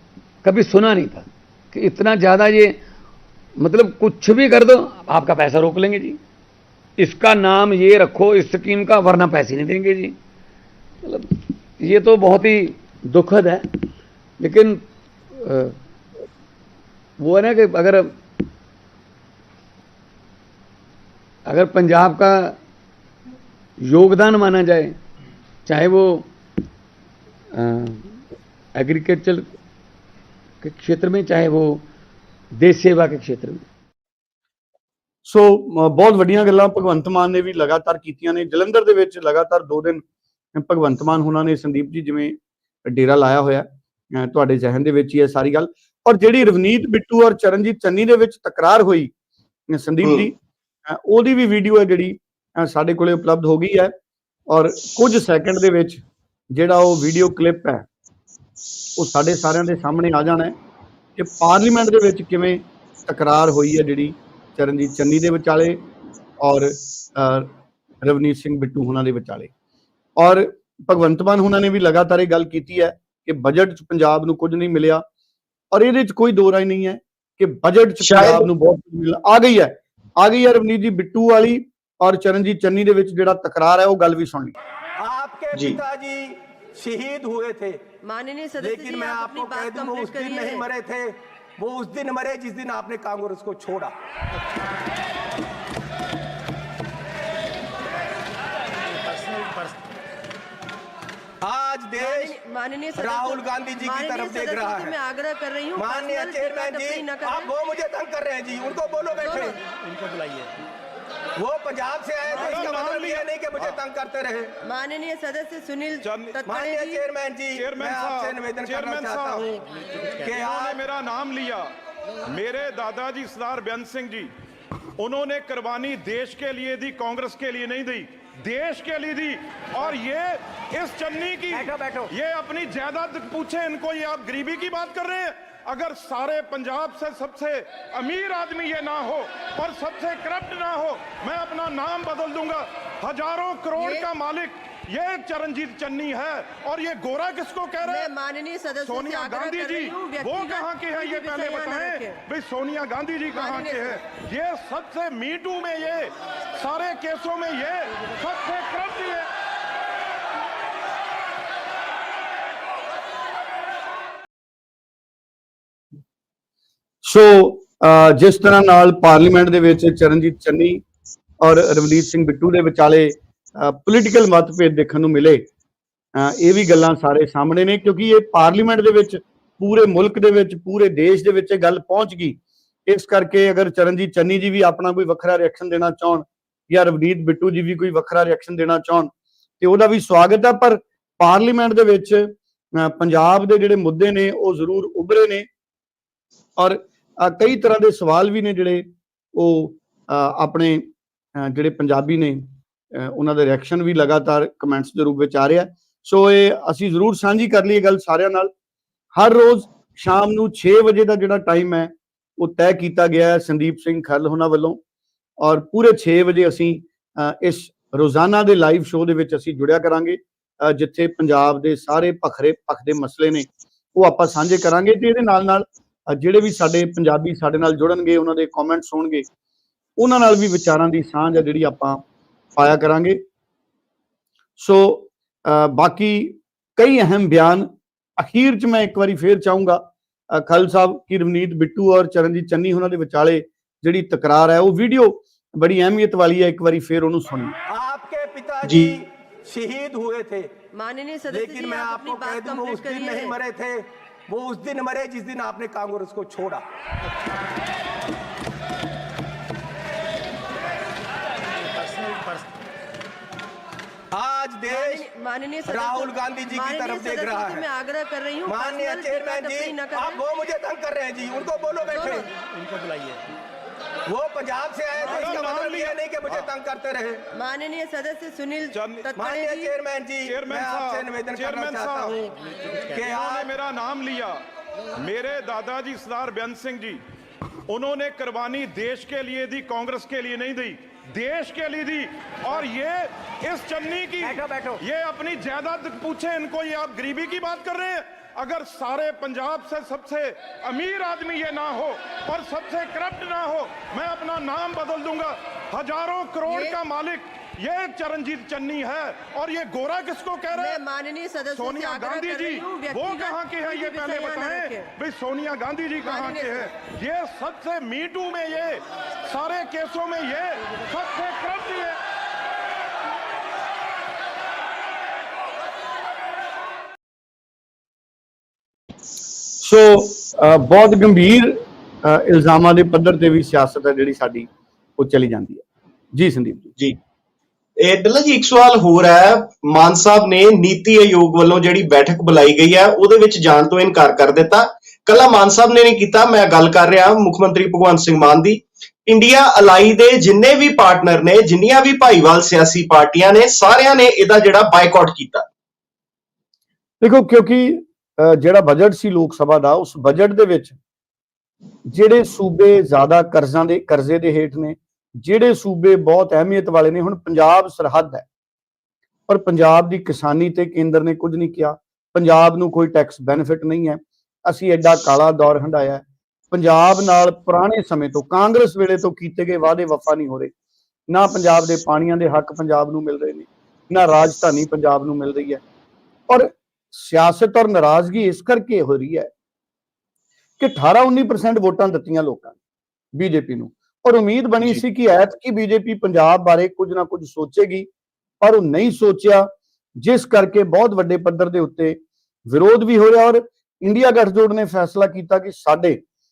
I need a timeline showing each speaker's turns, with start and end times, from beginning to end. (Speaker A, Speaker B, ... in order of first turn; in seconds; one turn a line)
Speaker A: 0.4-2.8
Speaker A: 3.6-6.2
Speaker A: 7.0-10.2
Speaker A: 11.0-13.9
Speaker A: 14.4-15.8
Speaker A: 17.2-18.2
Speaker A: 21.5-22.6
Speaker A: 23.8-25.0
Speaker A: 25.6-26.3
Speaker A: 27.6-28.2
Speaker A: 28.8-29.5
Speaker A: 30.6-31.9
Speaker A: 32.6-33.6
Speaker B: 35.2-49.1
Speaker B: 49.7-53.9
Speaker B: 54.5-56.0
Speaker B: 56.5-57.9
Speaker B: 59.0-60.5
Speaker B: 61.2-65.8
Speaker B: 66.4-67.5
Speaker B: 68.0-69.5
Speaker B: 70.2-75.0
Speaker B: 75.7-84.5
Speaker C: 78.0-78.5
Speaker D: 85.0-87.8
Speaker E: 88.0-90.7
Speaker D: 88.6-93.9
Speaker D: 101.4-102.4
Speaker E: 102.0-107.5
Speaker D: 103.0-105.0
Speaker D: 105.8-109.6
Speaker E: 109.2-109.6
Speaker D: 111.4-114.5
Speaker F: 112.3-113.8
Speaker E: 112.3-112.9
Speaker E: 114.6-117.0
Speaker F: 116.0-116.4
Speaker D: 116.5-120.8
Speaker F: 117.5-119.5
Speaker F: 120.3-121.7
Speaker F: 122.2-124.3
Speaker F: 125.0-148.1
Speaker D: 131.5-132.1
Speaker E: 143.8-144.1
Speaker E: 147.8-152.2
Speaker F: 148.8-159.3
Speaker E: 153.3-154.1
Speaker B: 167.0-170.8
Speaker B: 171.4-175.5
Speaker B: 176.2-195.5
Speaker B: 196.6-208.5
Speaker B: 209.2-214.8
Speaker B: 215.4-229.2
Speaker B: 230.0-232.0
Speaker B: 232.6-233.2
Speaker B: 234.6-247.6
Speaker D: 247.7-250.5
Speaker C: 248.7-248.9
Speaker E: 250.7-253.4
Speaker D: 251.3-256.6
Speaker D: 264.1-265.1
Speaker E: 264.7-270.2
Speaker D: 265.7-267.7
Speaker D: 268.5-272.3
Speaker E: 271.9-272.3
Speaker D: 274.1-277.2
Speaker F: 275.0-276.5
Speaker E: 275.0-275.6
Speaker E: 277.3-279.8
Speaker F: 278.7-279.1
Speaker D: 279.2-283.5
Speaker F: 280.2-282.2
Speaker F: 282.9-284.4
Speaker F: 285.0-287.0
Speaker F: 287.7-310.8
Speaker D: 294.2-294.8
Speaker E: 306.5-306.8
Speaker E: 310.5-314.9
Speaker F: 311.5-322.0
Speaker E: 316.0-316.7
Speaker B: 329.6-336.7
Speaker C: 337.8-355.5
Speaker B: 357.0-360.8
Speaker B: 361.9-368.3
Speaker B: 369.3-380.5
Speaker B: 381.1-385.6
Speaker B: 386.3-389.3
Speaker B: 390.6-392.6
Speaker B: 393.1-397.9
Speaker B: 398.4-406.0